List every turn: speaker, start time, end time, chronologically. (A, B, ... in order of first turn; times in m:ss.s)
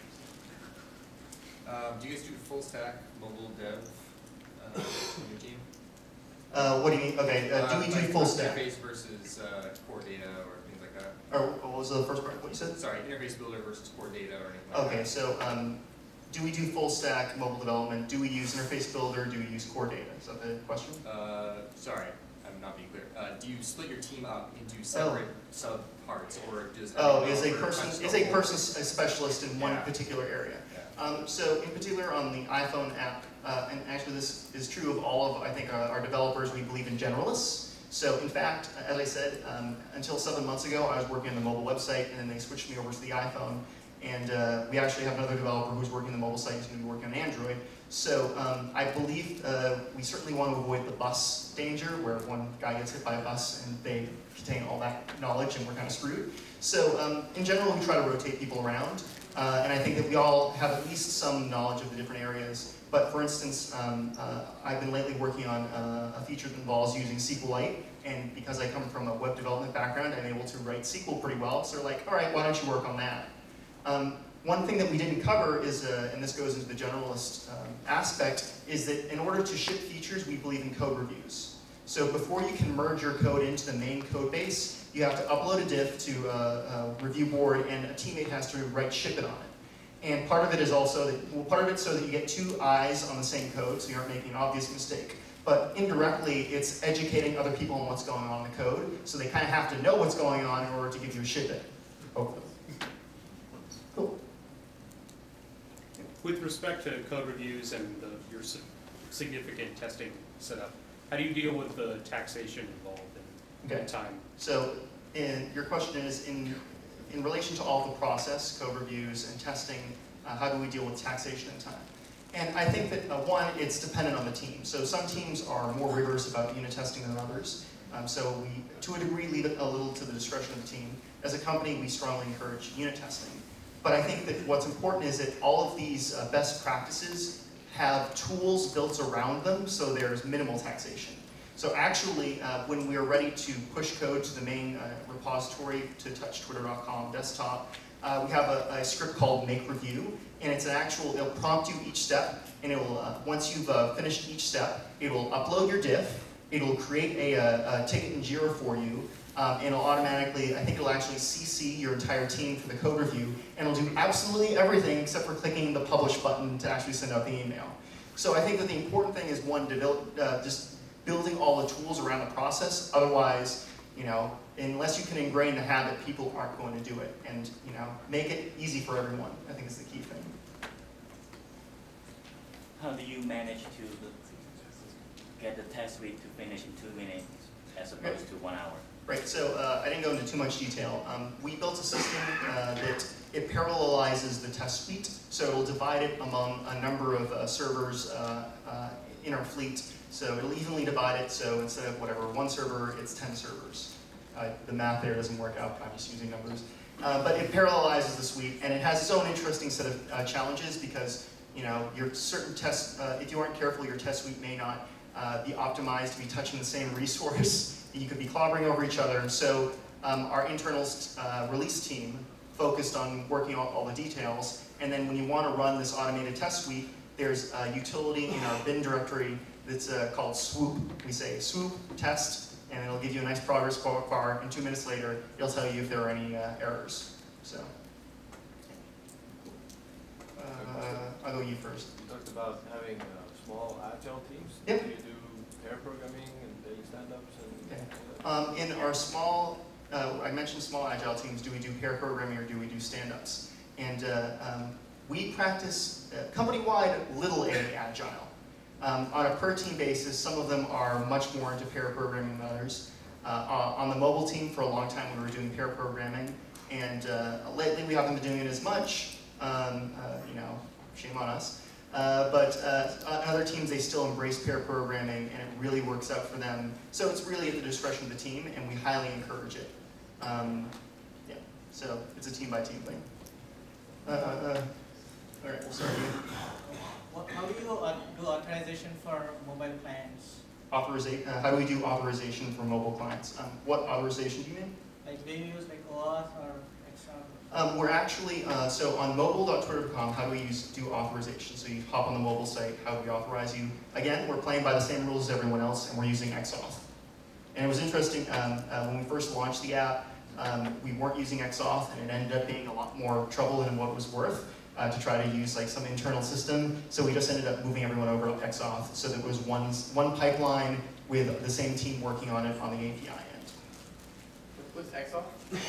0:01.6-0:05.6 A
0:06.5-0:08.6 B
0:07.5-0:11.2 A
0:11.3-0:12.7 B
0:12.8-0:15.1 A
0:14.7-0:15.8 B
0:16.3-0:21.0 B
0:21.0-0:28.6 A
0:24.9-0:25.2 B
0:27.0-1:13.3 B
0:29.6-0:29.9 A
1:13.8-1:42.5 B
1:46.2-1:54.2 C
1:53.6-3:00.4 B
3:02.8-3:08.8 D
3:09.1-3:57.7 B
4:00.4-4:01.9 B
4:00.5-4:01.0 E
4:01.9-4:08.3 E
4:07.7-4:40.7 B
4:41.3-4:43.0 B
4:44.0-4:44.7 B
4:45.4-4:46.3 B
4:46.7-4:50.4 F
4:50.7-4:54.7 B
4:55.0-4:57.5 F
4:57.5-5:06.9 B
5:07.5-5:23.6 B
5:24.6-5:25.3 E